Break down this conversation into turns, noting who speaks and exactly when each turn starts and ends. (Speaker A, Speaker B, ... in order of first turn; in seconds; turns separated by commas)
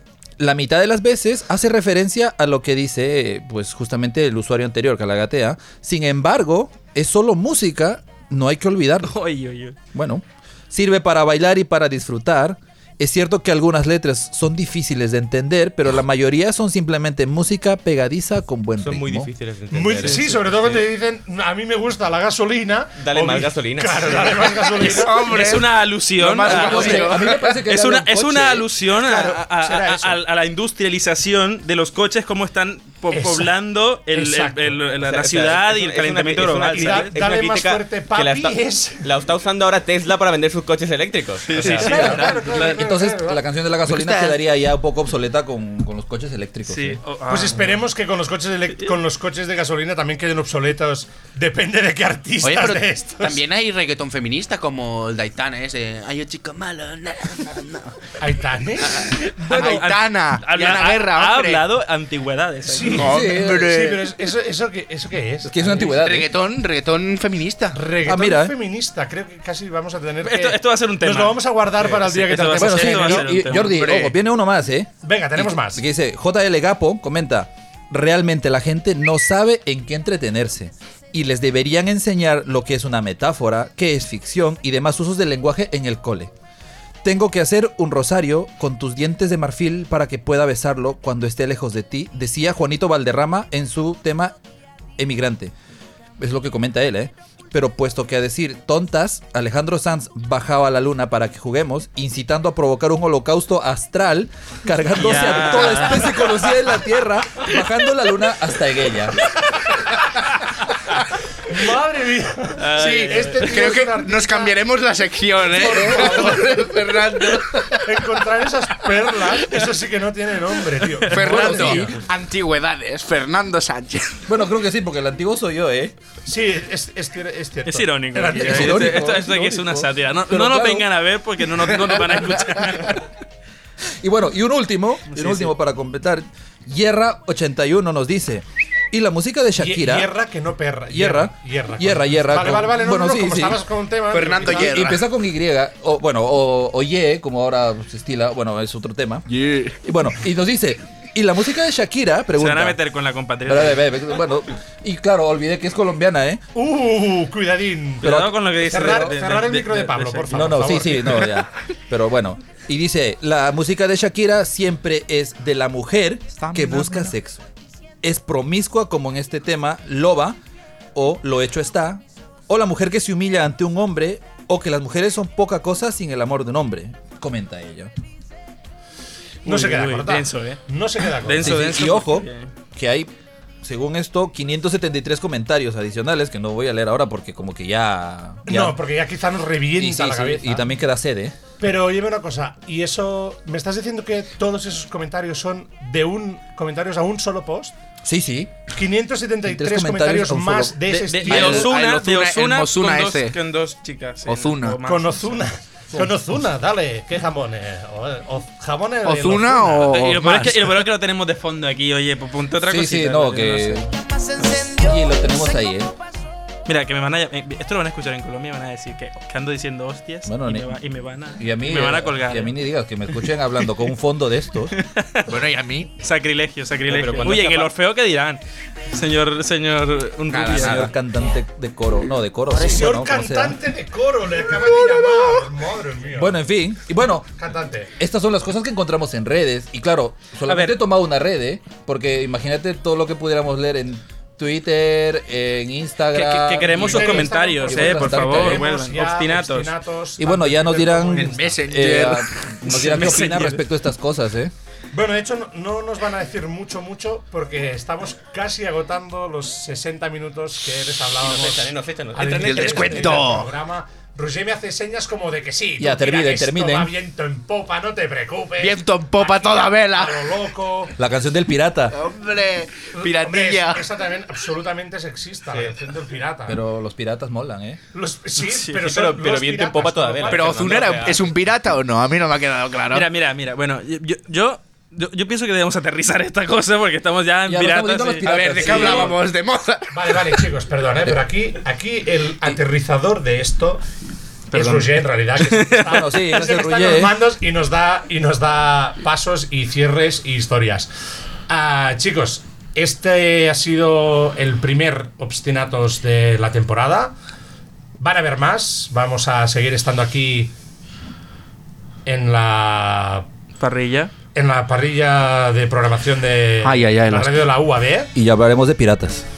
Speaker A: 0.4-9.1, Speaker B: 9.0-9.8, Speaker A: 9.9-19.3, Speaker C: 18.8-20.8, Speaker D: 19.7-25.1, Speaker C: 23.0-24.3, Speaker E: 24.2-27.6, Speaker B: 24.8-37.1, Speaker A: 26.5-28.7, Speaker D: 28.9-30.2, Speaker D: 33.1-33.5, Speaker D: 34.1-34.8, Speaker C: 35.0-42.1, Speaker D: 36.7-39.1, Speaker B: 41.5-42.5, Speaker D: 41.6-43.4, Speaker A: 41.8-47.0, Speaker E: 43.9-44.4, Speaker B: 46.7-47.8, Speaker D: 47.3-53.4, Speaker E: 52.4-58.1, Speaker D: 58.2-59.0, Speaker E: 58.8-61.6, Speaker B: 59.3-63.0, Speaker D: 62.7-65.8, Speaker E: 62.9-64.1, Speaker A: 63.0-63.7, Speaker A: 65.4-66.3, Speaker E: 65.8-67.8, Speaker D: 67.7-73.4, Speaker A: 68.0-68.5, Speaker B: 70.2-73.8, Speaker A: 72.6-86.3, Speaker E: 73.5-74.2, Speaker D: 75.0-75.8, Speaker A: 87.0-94.4, Speaker A: 95.0-95.5, Speaker A: 96.2-109.2, Speaker B: 105.0-106.3, Speaker D: 111.5-114.6, Speaker B: 112.6-113.5, Speaker E: 112.8-118.2, Speaker D: 115.5-116.7, Speaker A: 115.7-116.0, Speaker D: 117.9-121.8, Speaker B: 121.0-121.8, Speaker E: 121.1-124.2, Speaker A: 121.2-121.9, Speaker A: 124.3-126.0, Speaker D: 126.3-129.0, Speaker B: 127.7-133.0, Speaker A: 128.3-130.9, Speaker A: 134.0-140.1, Speaker B: 135.1-135.5, Speaker D: 139.6-144.9, Speaker A: 140.9-143.6, Speaker E: 144.1-145.0, Speaker A: 144.4-149.3, Speaker E: 149.3-149.8, Speaker A: 149.8-152.8, Speaker B: 152.4-153.8, Speaker A: 153.5-156.4, Speaker D: 156.5-161.3, Speaker A: 158.0-159.1, Speaker B: 158.0-160.5, Speaker A: 160.3-167.4, Speaker E: 166.4-167.1, Speaker A: 168.0-170.4, Speaker A: 170.9-177.9, Speaker B: 179.4-180.6, Speaker D: 179.4-181.5, Speaker B: 181.2-182.5, Speaker A: 181.4-188.8, Speaker D: 188.5-190.7, Speaker A: 189.8-191.4, Speaker D: 191.6-197.8, Speaker A: 198.0-198.7, Speaker D: 198.7-201.7, Speaker A: 199.5-201.1, Speaker B: 201.1-205.4, Speaker E: 201.3-203.4, Speaker E: 204.3-204.8, Speaker D: 204.8-210.0, Speaker E: 209.1-210.6, Speaker B: 209.9-213.9, Speaker A: 212.6-213.9, Speaker A: 214.4-215.9, Speaker B: 216.7-222.6, Speaker A: 220.3-220.7, Speaker A: 221.4-224.7, Speaker B: 224.7-225.3, Speaker E: 225.3-225.9, Speaker B: 226.0-230.9, Speaker C: 226.9-227.7, Speaker E: 230.3-230.9, Speaker A: 230.5-233.6, Speaker E: 232.5-232.9, Speaker D: 232.7-236.4, Speaker E: 234.3-235.3, Speaker A: 236.2-237.3, Speaker D: 237.4-237.9, Speaker A: 238.0-248.7, Speaker B: 240.5-240.8, Speaker B: 246.1-249.7, Speaker D: 246.8-251.6, Speaker A: 250.2-254.5, Speaker E: 251.1-252.4, Speaker B: 252.7-253.6, Speaker D: 254.9-270.9, Speaker C: 261.2-263.2, Speaker E: 262.4-263.5, Speaker A: 265.8-266.9, Speaker E: 268.6-270.5, Speaker A: 271.0-272.0, Speaker E: 271.9-273.9, Speaker D: 273.0-276.6, Speaker A: 276.5-277.8, Speaker D: 277.9-281.2, Speaker B: 278.4-278.8, Speaker C: 278.8-281.3, Speaker E: 280.3-283.1, Speaker B: 282.9-289.1, Speaker A: 287.5-289.2, Speaker E: 288.2-290.5, Speaker D: 289.9-293.8, Speaker D: 294.5-300.9, Speaker B: 295.4-295.8, Speaker A: 295.9-297.1, Speaker D: 301.5-307.1, Speaker D: 308.0-310.5, Speaker D: 312.1-313.3, Speaker B: 313.6-314.1, Speaker D: 314.4-318.1, Speaker E: 316.6-317.5, Speaker A: 318.1-319.2